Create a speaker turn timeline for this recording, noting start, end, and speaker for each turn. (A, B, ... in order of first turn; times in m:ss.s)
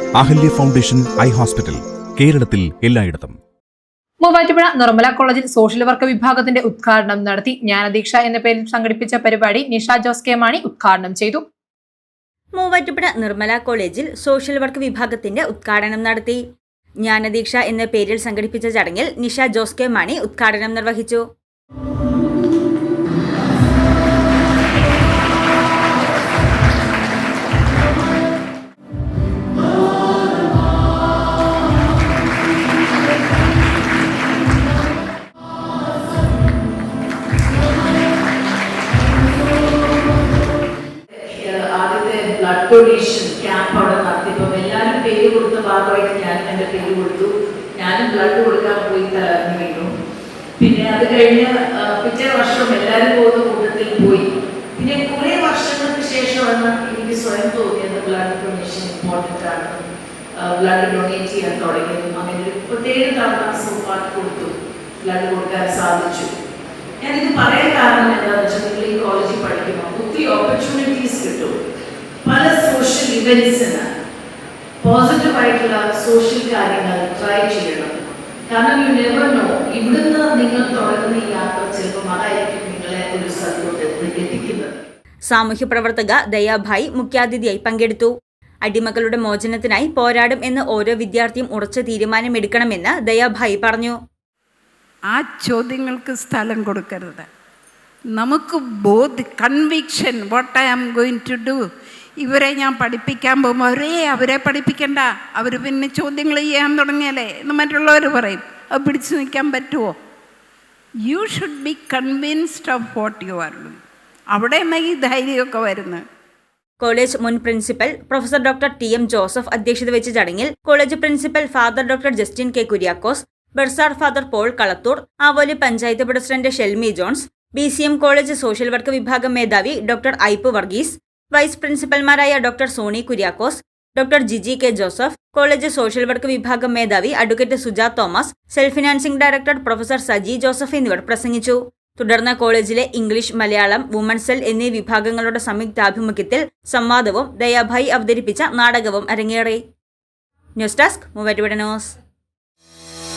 0:00.2-0:03.4 A
0:04.2-0:11.4 B
0:12.6-0:16.4 C
0:17.0-0:21.2 C
0:41.2-0:49.9 D
0:50.6-0:59.8 D
1:00.4-1:04.5 D
1:05.0-1:06.3 D
1:07.0-1:11.5 D
1:12.2-1:13.8 D
1:14.8-1:18.0 D
1:18.5-1:24.8 D
1:25.3-1:28.1 C
1:28.6-1:34.0 C
1:35.1-1:37.3 E
1:38.2-1:41.6 E
1:42.2-1:49.9 E
1:51.1-1:53.8 E
1:54.3-1:56.0 E
1:56.8-2:29.6 C
2:30.6-2:31.9 C